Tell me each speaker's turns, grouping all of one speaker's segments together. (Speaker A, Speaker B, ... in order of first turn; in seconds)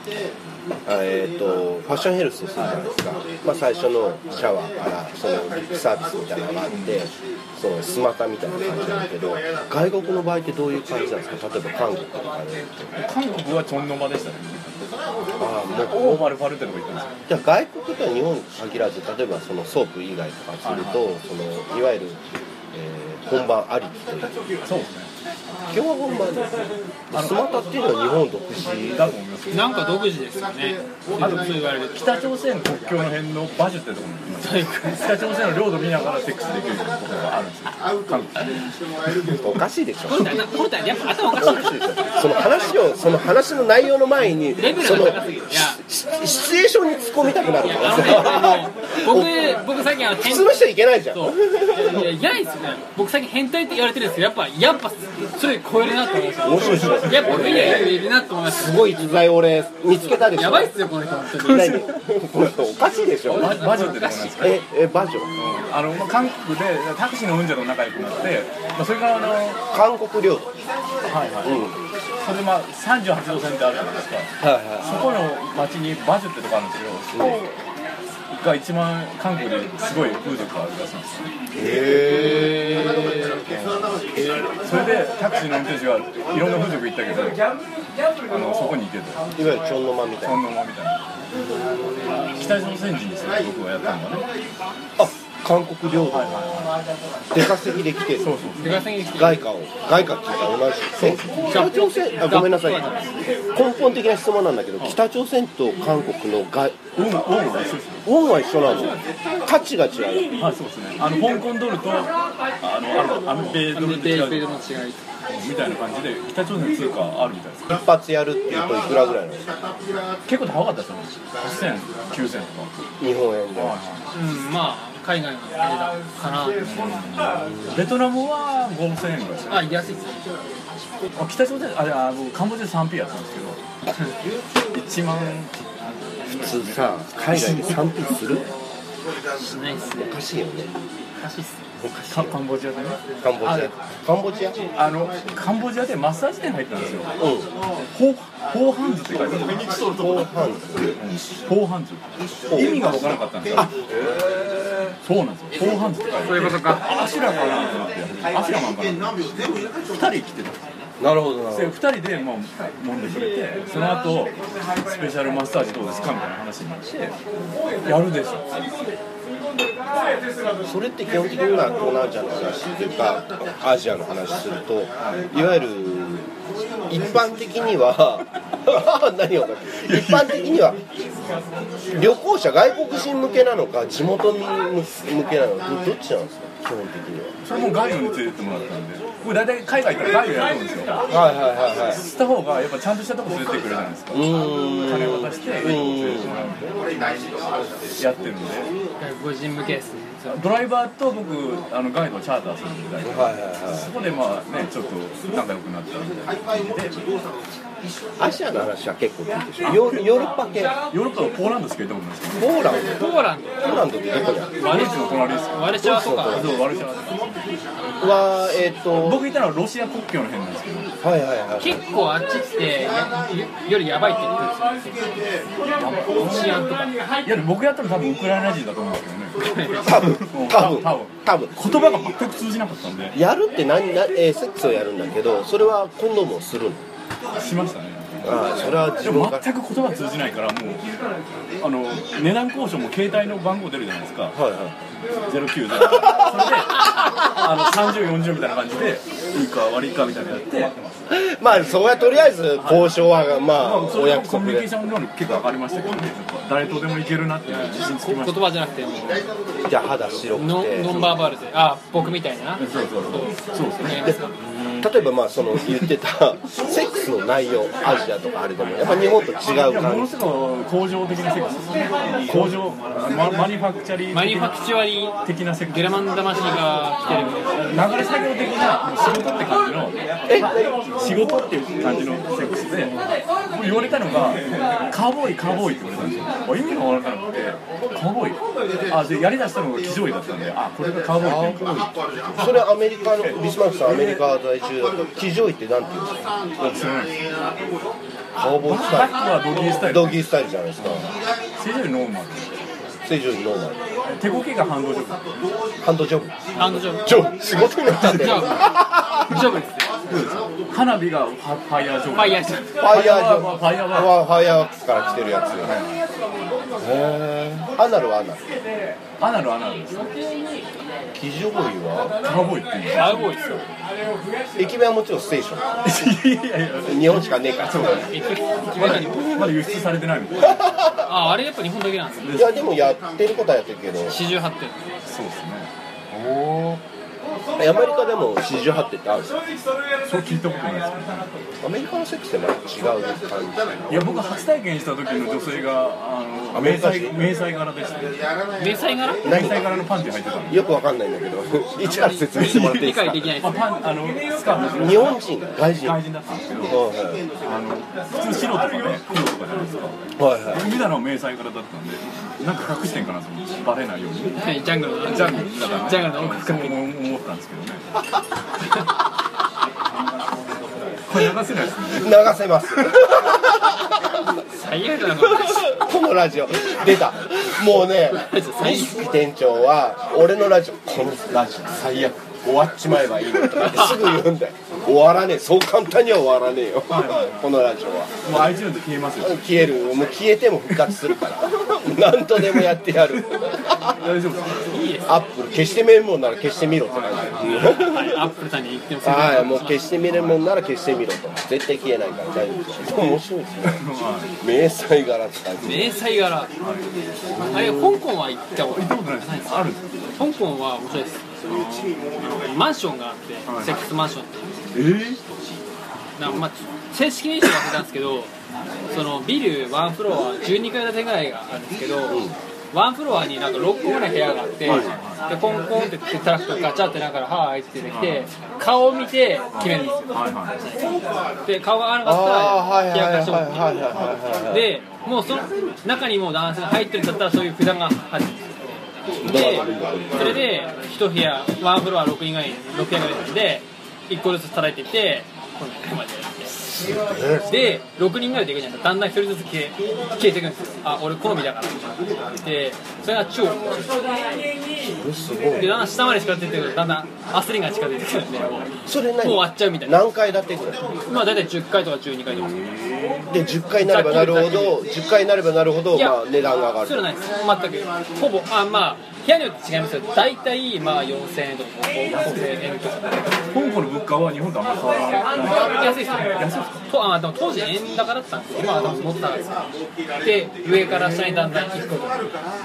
Speaker A: 0.8-13.0, 15.3-16.3, 17.3-22.2, 22.7-24.4, 25.7-29.2, 39.4-40.5, 41.3-49.5, 50.2-52.1, 56.4-60.7, 61.5-63.6, 64.4-65.3, 69.7-70.5, 71.4-71.8, 74.4-75.0, 77.1-77.4, 81.5-83.0, 89.3-90.4, 95.0-96.7, 97.3-98.4, 99.1-102.9, 103.5-106.8, 108.0-110.3, 117.7-119.5, 123.0-123.8, 127.4-127.8, 136.3-138.5, 139.9-140.7, 141.8-142.4, 143.2-144.6, 147.2-147.5, 149.9-150.9, 152.5-152.9, 153.6-154.2, 161.0-161.8, 170.6-176.3, 176.9-180.8, 181.9-187.4, 191.1-192.0, 194.1-196.4, 198.0-198.3, 203.0-203.9, 208.2-210.8, 212.3-213.0, 213.6-214.6, 215.8-216.6, 218.0-219.2, 221.0-221.8, 229.8-231.6, 233.1-236.8, 238.2-239.5, 244.3-244.8, 246.0-246.6, 251.1-254.7, 259.7-261.3, 263.9-264.2, 264.8-270.1, 272.2-272.6, 280.2-280.9, 291.2-296.3, 298.4-301.1, 303.0-303.8, 305.8-306.4, 307.0-309.3, 312.8-315.8, 316.8-318.6, 321.1-322.2, 324.6-325.7, 326.8-328.1, 329.0-329.5, 330.4-330.8, 332.3-334.2, 336.1-336.8, 337.6-339.4, 341.6-344.1, 346.5-347.3, 349.2-349.7, 350.5-353.3, 354.7-356.0, 356.6-357.2, 360.2-360.7, 371.9-374.0, 375.2-388.6, 389.2-394.0, 395.1-398.2, 399.0-403.8, 404.4-405.9, 407.4-407.8, 422.1-422.4, 424.6-424.9, 432.0-434.7, 439.2-440.4, 446.7-447.6, 454.8-455.8, 458.9-460.9, 463.3-467.1
Speaker B: 6.7-7.0, 13.0-14.8, 15.7-17.1, 20.6-21.0, 24.6-25.1, 27.1-27.4, 28.8-29.8, 31.2-38.7, 56.5-57.9, 61.4-62.0, 63.3-64.6, 65.3-69.6, 71.1-71.7, 72.2-77.6, 78.3-81.3, 83.5-84.1, 84.6-87.5, 88.3-89.2, 90.2-91.0, 92.2-94.3, 96.1-96.8, 98.2-98.9, 101.0-101.6, 107.0-108.0, 110.4-114.6, 115.3-117.7, 120.3-122.7, 123.5-124.0, 126.6-130.0, 131.2-133.6, 134.7-137.9, 142.1-143.0, 144.7-147.1, 147.9-150.3, 150.9-153.7, 155.0-160.7, 161.5-167.2, 167.8-168.9, 175.0-175.3, 179.8-180.6, 187.4-191.0, 192.0-194.3, 194.8-197.1, 198.0-198.7, 200.3-207.1, 209.6-210.2, 210.8-212.5, 214.6-217.4, 219.0-220.9, 225.8-233.2, 237.3-240.8, 241.6-244.4, 245.2-250.8, 252.6-253.0, 253.5-258.5, 262.6-264.9, 269.4-274.6, 275.2-276.1, 277.1-292.6, 293.2-294.2, 296.6-297.2, 298.6-300.2, 301.6-302.5, 304.1-305.3, 308.0-308.4, 310.1-314.1, 315.4-316.0, 319.2-320.0, 322.2-323.3, 325.8-328.1, 328.7-330.8, 332.2-332.7, 335.1-335.7, 340.0-341.3, 343.9-348.3, 349.2-350.6, 352.4-352.7, 353.3-356.8, 357.4-364.4, 365.1-367.8, 371.1-372.2, 386.9-387.3, 388.2-389.4, 390.8-391.0, 392.4-394.6, 396.9-397.8, 400.1-400.4, 403.6-404.3, 405.6-405.9, 406.6-408.0, 408.6-409.8, 411.5-412.4, 413.5-413.8, 414.7-415.2, 424.6-425.2, 427.9-428.3, 429.5-430.6, 462.5-463.3, 472.1-472.7, 473.4-476.8
Speaker C: 29.5-32.0, 34.4-35.1, 40.1-41.7, 44.5-45.8, 47.6-50.6, 51.1-59.1, 60.2-61.8, 63.3-64.4, 81.6-83.4, 98.6-99.4, 101.5-103.2, 108.7-109.1, 113.7-115.0, 124.1-126.6, 129.5-130.2, 139.4-140.2, 141.2-141.6, 156.2-156.8, 199.0-200.4, 212.8-213.7, 214.6-216.4, 221.6-226.9, 229.4-230.0, 258.0-259.2, 260.3-264.3, 274.1-277.8, 306.6-307.2, 308.0-309.9, 312.1-312.8, 319.9-320.6, 322.9-323.6, 327.8-329.4, 331.0-332.4, 334.1-335.1, 348.6-349.3, 351.8-353.7, 364.4-366.8, 374.5-375.7, 378.1-379.1, 383.7-384.1, 394.7-395.2, 397.6-399.9, 405.6-406.5, 407.5-411.3, 412.2-414.5, 416.2-418.3, 418.9-433.6, 434.5-446.6, 447.4-454.5, 455.6-460.0, 461.1-462.6, 463.8-464.8, 465.9-473.4, 475.4-479.6, 480.2-482.3